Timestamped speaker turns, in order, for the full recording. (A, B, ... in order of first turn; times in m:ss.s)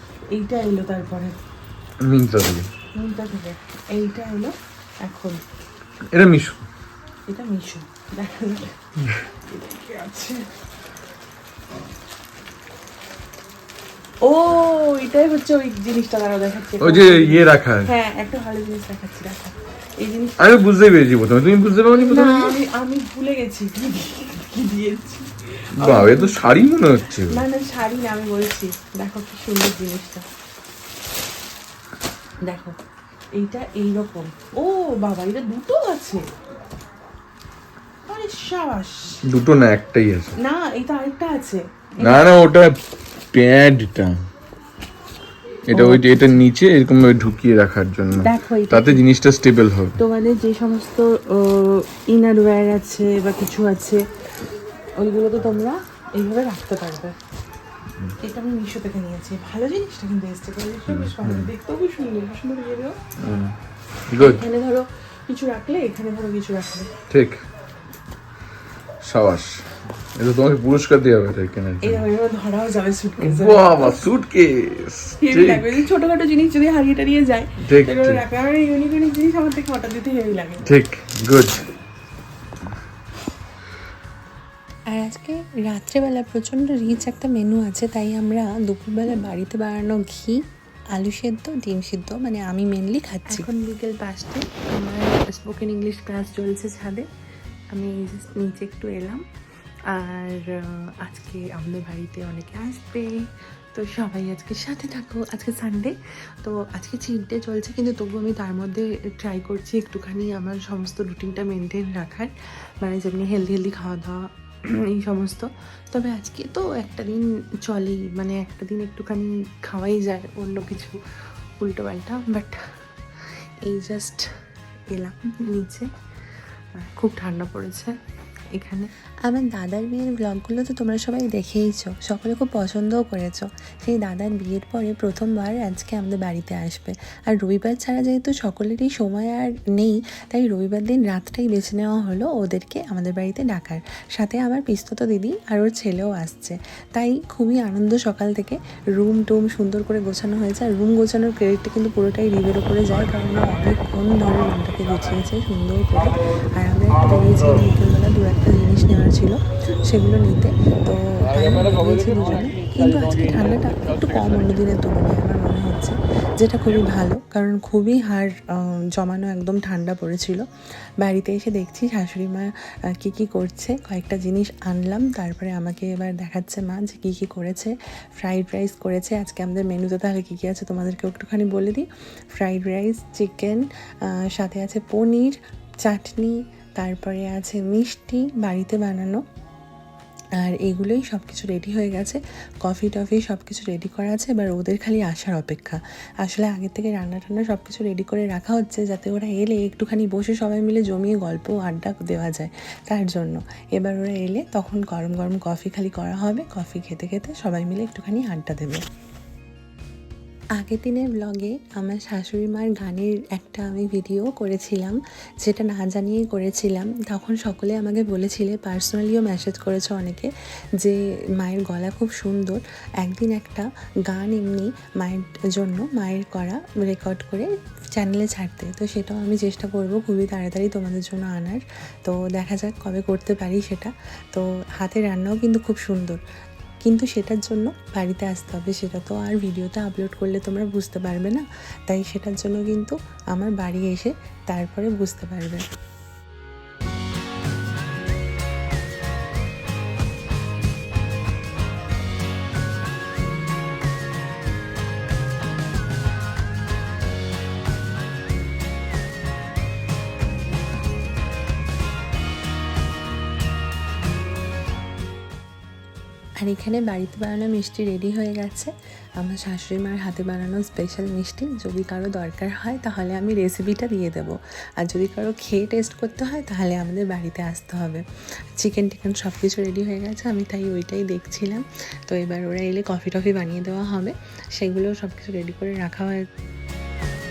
0:00.3-0:01.4 A
0:02.0-0:02.7 B
0:02.9-0:05.4 A
0:06.1-0:06.6 B
0:07.3-0:08.8 A
0:09.4-0:10.5 A
0:14.2-0:20.6 A
0:16.8-0:17.9 B
0:20.4-0:22.6 B
0:21.9-0:26.4 A
0:25.8-0:27.4 B
0:27.3-0:30.2 A
0:32.4-0:32.8 A
0:33.4-0:36.2 A
0:38.1-0:39.2 A
0:39.2-0:40.3 B
0:40.4-0:42.3 A
0:42.0-0:42.8 B
0:43.3-0:44.2 B
0:45.7-0:50.0 B
0:45.7-0:46.4 A
0:48.2-0:49.0 A
0:50.0-0:54.0 A
0:55.0-0:57.1 A
0:58.2-1:02.9 A
1:00.9-1:01.5 B
1:03.2-1:03.5 B
1:04.1-1:04.4 B
1:04.2-1:06.9 A
1:07.1-1:07.4 B
1:09.0-1:12.0 B
1:11.8-1:14.0 A
1:13.2-1:15.8 B
1:15.2-1:20.7 A
1:17.6-1:18.2 B
1:20.6-1:21.6 B
1:24.9-1:30.4 C
1:30.9-1:37.0 C
1:37.7-1:39.2 C
1:39.9-1:43.2 C
1:43.7-1:52.3 C
1:52.8-1:54.3 C
1:54.8-2:01.0 C
2:01.6-2:02.6 C
2:03.6-2:04.2 C
2:04.9-2:05.9 C
2:06.8-2:07.9 C
2:08.5-2:50.4 C
2:41.3-2:44.3 B
2:51.0-3:01.8 C
3:02.4-3:09.2 C
3:10.4-3:28.8 C
3:30.6-3:40.3 C
3:40.8-3:56.2 C
3:56.8-4:05.6 C
4:26.4-4:38.0 C
4:38.6-4:46.2 C